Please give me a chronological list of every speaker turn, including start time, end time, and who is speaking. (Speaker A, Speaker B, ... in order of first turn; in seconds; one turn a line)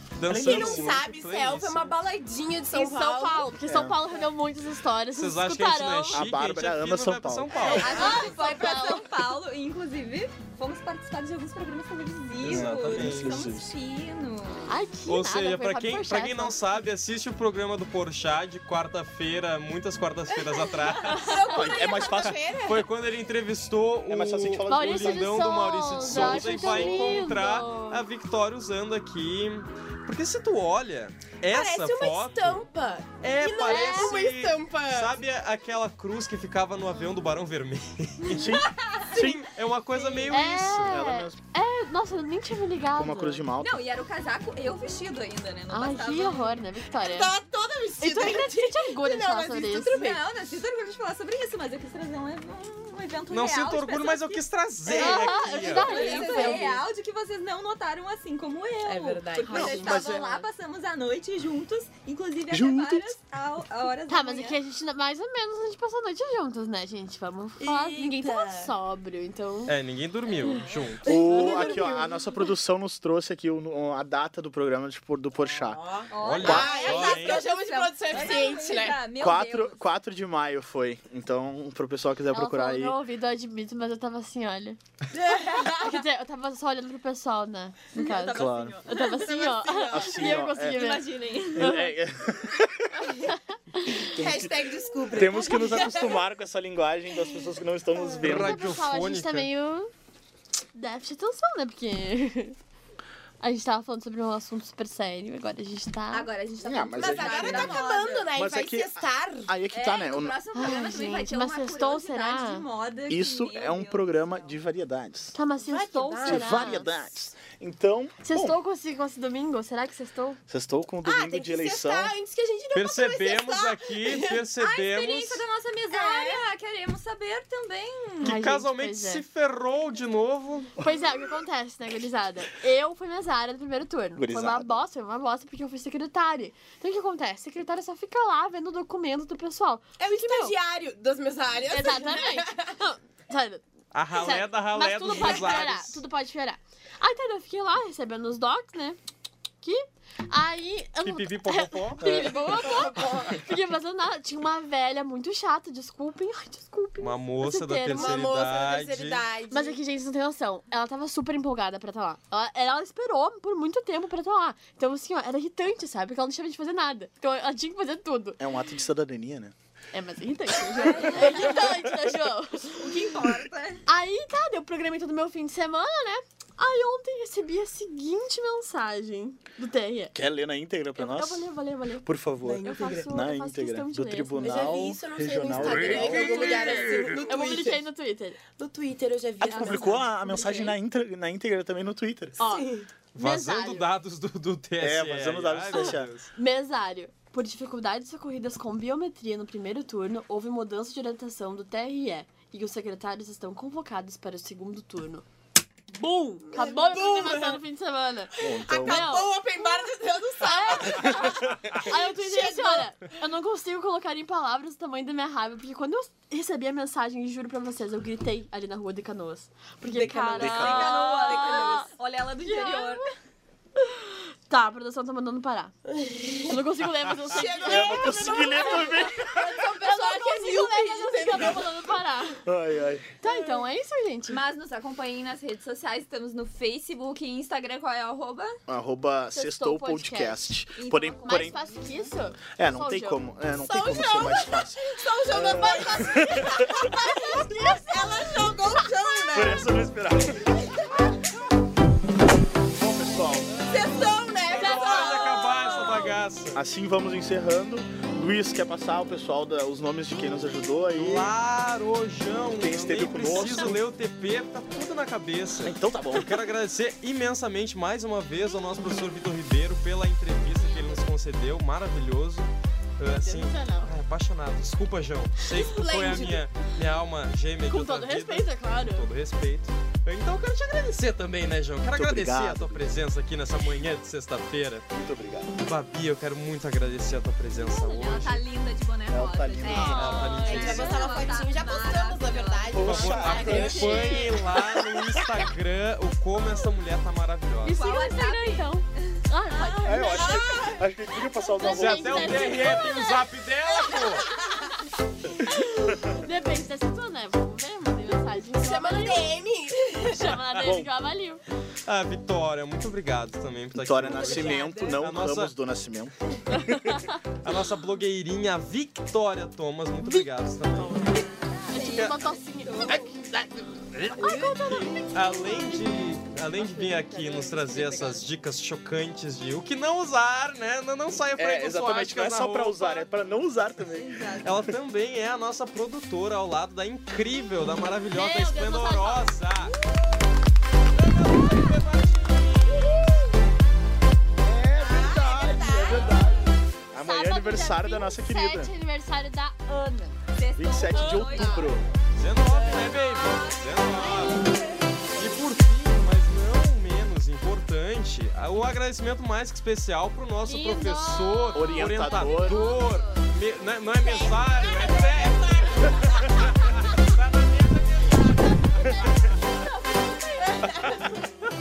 Speaker A: 0.2-1.9
Speaker B: 0.2-3.5
Speaker C: 0.3-1.0
Speaker D: 2.7-6.3
Speaker C: 3.6-4.0
Speaker A: 5.1-8.0
Speaker C: 6.1-7.9
Speaker E: 7.6-14.7
Speaker B: 7.6-8.3
Speaker D: 7.7-9.1
Speaker A: 12.4-13.5
Speaker C: 12.5-13.7
Speaker D: 14.7-16.6
Speaker A: 15.1-21.5
Speaker B: 21.1-22.9
Speaker C: 21.4-22.5
Speaker A: 22.2-32.6
Speaker C: 24.1-27.3
Speaker D: 24.7-28.0
Speaker B: 31.5-35.1
Speaker A: 33.2-38.6
Speaker D: 33.6-34.2
Speaker C: 38.3-39.5
Speaker E: 38.6-39.2
Speaker B: 39.1-39.4
Speaker A: 39.1-40.9
Speaker D: 40.3-43.4
Speaker C: 40.9-41.4
Speaker C: 43.0-43.8
Speaker E: 43.6-46.6
Speaker D: 45.7-47.3
Speaker B: 47.0-50.2
Speaker D: 48.0-50.0
Speaker E: 49.9-64.6
Speaker A: 53.3-56.1
Speaker D: 54.9-56.8
Speaker B: 54.9-56.8
Speaker B: 58.9-60.2
Speaker D: 59.4-59.9
Speaker C: 59.5-60.4
Speaker C: 62.5-63.1
Speaker D: 64.1-69.8
Speaker B: 67.6-68.7
Speaker A: 69.7-71.1
Speaker D: 70.4-72.1
Speaker C: 71.0-76.8
Speaker B: 71.0-71.9
Speaker B: 75.6-79.0
Speaker E: 76.1-79.8
Speaker A: 76.2-77.5
Speaker C: 79.1-83.0
Speaker D: 82.3-84.8
Speaker B: 85.1-85.8
Speaker D: 85.8-91.9
Speaker E: 87.9-89.2
Speaker C: 88.3-88.8
Speaker B: 89.0-90.3
Speaker C: 89.9-93.3
Speaker E: 90.6-91.7
Speaker D: 93.2-94.2
Speaker B: 94.0-96.2
Speaker C: 94.1-98.6
Speaker B: 98.0-98.2
Speaker A: 98.2-99.5
Speaker D: 98.2-99.9
Speaker D: 100.7-102.5
Speaker D: 103.4-106.3
Speaker E: 106.1-108.4
Speaker C: 106.6-107.8
Speaker B: 107.0-109.5
Speaker C: 108.3-110.4
Speaker E: 109.7-114.5
Speaker D: 110.5-112.6
Speaker C: 113.1-115.3
Speaker D: 115.3-116.9
Speaker B: 115.6-116.8
Speaker C: 116.2-118.6
Speaker D: 118.2-120.4
Speaker C: 120.5-122.2
Speaker B: 121.0-124.4
Speaker A: 122.7-125.4
Speaker E: 124.6-128.3
Speaker B: 125.9-126.4
Speaker D: 128.2-129.2
Speaker A: 128.2-130.7
Speaker D: 130.8-140.6
Speaker C: 134.2-134.8
Speaker B: 140.0-142.7
Speaker D: 141.7-149.0
Speaker A: 143.9-146.0
Speaker D: 149.6-158.3
Speaker A: 151.0-152.4
Speaker B: 152.1-153.4
Speaker A: 157.0-159.2
Speaker B: 157.9-159.8
Speaker D: 159.5-168.4
Speaker C: 168.4-169.5
Speaker D: 169.9-173.0
Speaker E: 170.7-171.7
Speaker E: 172.7-173.8
Speaker D: 173.8-180.2
Speaker C: 180.1-181.5
Speaker D: 180.9-182.1
Speaker C: 182.0-187.1
Speaker B: 182.4-183.1
Speaker D: 182.6-184.8
Speaker B: 184.4-187.9
Speaker D: 185.8-188.4
Speaker B: 188.5-190.7
Speaker E: 189.4-190.0
Speaker D: 189.5-190.7
Speaker C: 189.6-192.4
Speaker D: 192.4-193.9
Speaker B: 192.4-192.9
Speaker A: 193.1-196.3
Speaker C: 194.8-196.1
Speaker D: 195.7-205.2
Speaker B: 206.0-207.6
Speaker D: 206.5-221.9
Speaker C: 208.4-209.2
Speaker B: 208.5-212.9
Speaker C: 211.2-211.8
Speaker B: 219.8-220.9
Speaker C: 220.4-220.9
Speaker E: 220.5-223.1
Speaker D: 222.4-223.1
Speaker D: 223.8-232.4
Speaker B: 225.9-226.6
Speaker B: 227.2-231.7
Speaker C: 227.7-229.6
Speaker C: 232.4-233.1
Speaker D: 233.2-234.4
Speaker E: 234.3-238.6
Speaker C: 238.7-241.6
Speaker D: 239.3-240.6
Speaker E: 240.8-242.1
Speaker D: 241.2-243.2
Speaker C: 242.6-246.9
Speaker B: 243.6-249.7
Speaker D: 246.7-248.8
Speaker C: 249.3-250.8
Speaker C: 252.7-253.6
Speaker B: 253.6-255.7
Speaker A: 254.5-256.6
Speaker D: 254.7-256.1
Speaker C: 256.5-261.3
Speaker A: 260.9-284.9
Speaker C: 262.6-263.8
Speaker C: 265.6-266.4
Speaker D: 273.2-273.9
Speaker B: 275.6-276.4
Speaker D: 277.7-279.1
Speaker C: 281.9-282.9
Speaker C: 284.9-285.5
Speaker A: 285.6-288.4
Speaker E: 287.5-292.8
Speaker C: 289.1-290.2
Speaker B: 289.6-294.9
Speaker A: 289.7-291.1
Speaker D: 289.9-291.2
Speaker C: 292.7-294.2
Speaker A: 292.8-297.8
Speaker D: 293.4-294.4
Speaker D: 297.6-300.7
Speaker E: 297.6-300.8
Speaker C: 299.8-302.8
Speaker D: 301.6-303.2
Speaker A: 301.6-304.3
Speaker B: 303.9-304.4
Speaker D: 305.4-311.4
Speaker B: 308.5-310.4
Speaker C: 310.6-310.9
Speaker A: 311.9-315.5
Speaker C: 313.7-317.1
Speaker B: 314.1-315.1
Speaker A: 317.4-321.1
Speaker D: 320.0-320.3
Speaker B: 320.8-321.3
Speaker E: 321.3-323.1
Speaker D: 321.7-323.2
Speaker A: 321.9-322.2
Speaker A: 322.9-333.1
Speaker D: 324.1-328.2
Speaker B: 324.2-324.6
Speaker C: 331.4-334.2
Speaker E: 333.9-334.5
Speaker A: 334.4-339.8
Speaker D: 338.1-339.3
Speaker A: 340.9-343.1
Speaker D: 342.7-343.1
Speaker C: 344.4-348.7
Speaker B: 344.8-346.3
Speaker D: 347.0-350.2
Speaker E: 350.3-351.8
Speaker C: 350.6-351.9
Speaker D: 350.9-351.6
Speaker B: 351.4-351.7
Speaker A: 352.1-354.4
Speaker B: 352.5-352.9
Speaker E: 352.9-354.3
Speaker B: 354.4-354.8
Speaker A: 355.1-369.0
Speaker D: 360.4-363.2
Speaker C: 361.5-362.6
Speaker D: 364.0-366.1
Speaker B: 364.5-366.0
Speaker D: 368.8-371.1